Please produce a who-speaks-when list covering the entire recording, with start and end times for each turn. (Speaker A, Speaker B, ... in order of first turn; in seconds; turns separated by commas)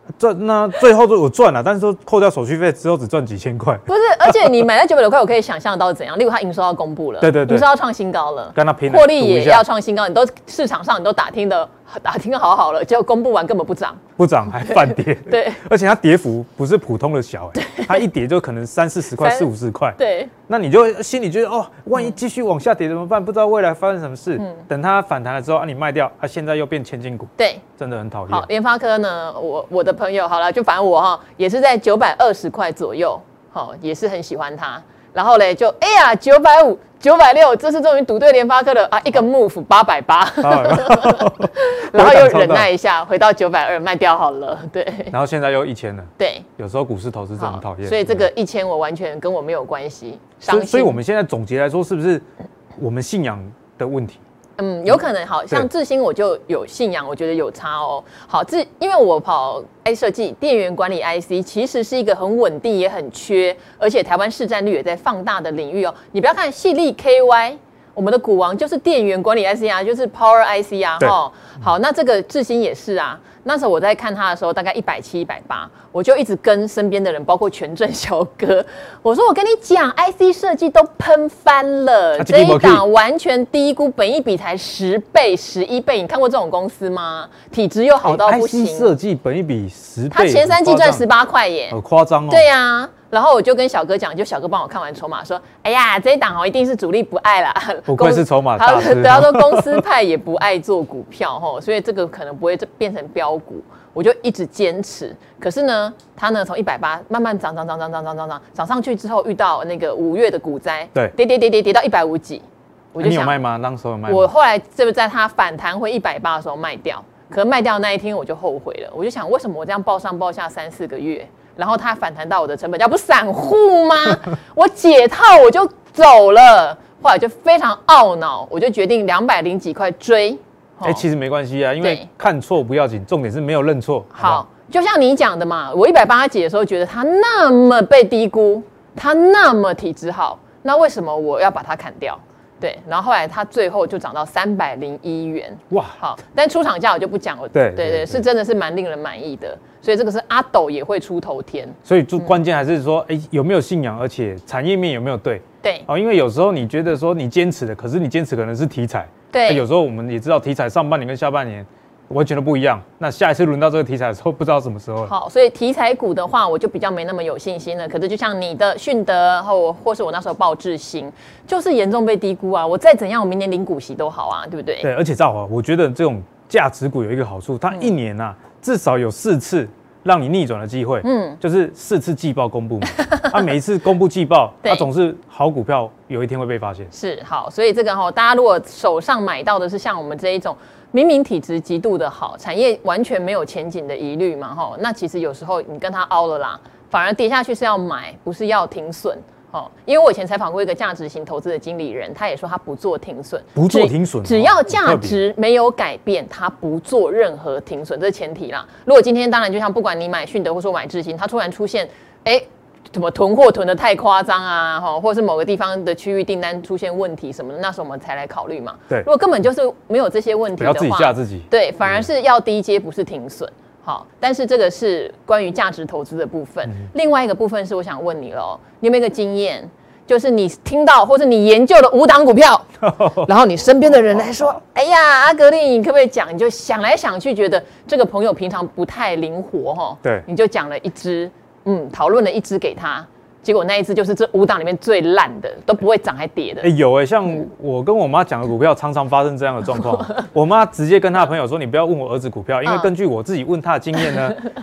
Speaker A: 0.2-4.5, Speaker B: 3.9-14.0, Speaker A: 7.2-7.7, Speaker A: 8.5-9.6, Speaker A: 14.2-20.0, Speaker B: 14.6-15.6, Speaker B: 17.6-18.0, Speaker B: 19.1-20.3, Speaker A: 20.5-28.5, Speaker B: 24.4-24.7, Speaker B: 27.4-27.6, Speaker B: 28.3-45.1, Speaker A: 40.4-42.7, Speaker A: 45.1-48.3, Speaker B: 46.2-46.5, Speaker B: 47.4-51.0, Speaker A: 50.4-52.2, Speaker A: 52.8-54.2, Speaker B: 54.6-88.9, Speaker A: 82.2-82.8, Speaker A: 88.0-91.0, Speaker B: 90.1-91.8, Speaker A: 91.7-92.5, Speaker B: 92.3-113.4, Speaker A: 97.9-99.8, Speaker A: 113.0-114.3, Speaker B: 114.0-131.0, Speaker A: 130.8-134.4, Speaker B: 134.1-152.4, Speaker A: 145.7-145.9, Speaker A: 147.5-148.2, Speaker A: 151.8-165.1, Speaker B: 159.3-159.6, Speaker B: 165.0-174.9, Speaker A: 174.8-186.9, Speaker B: 181.0-181.4, Speaker B: 182.9-183.3, Speaker B: 186.9-246.7, Speaker A: 203.5-205.2, Speaker A: 220.6-222.0, Speaker A: 232.8-233.3, Speaker A: 233.9-234.5, Speaker A: 246.6-254.4, Speaker B: 252.6-252.9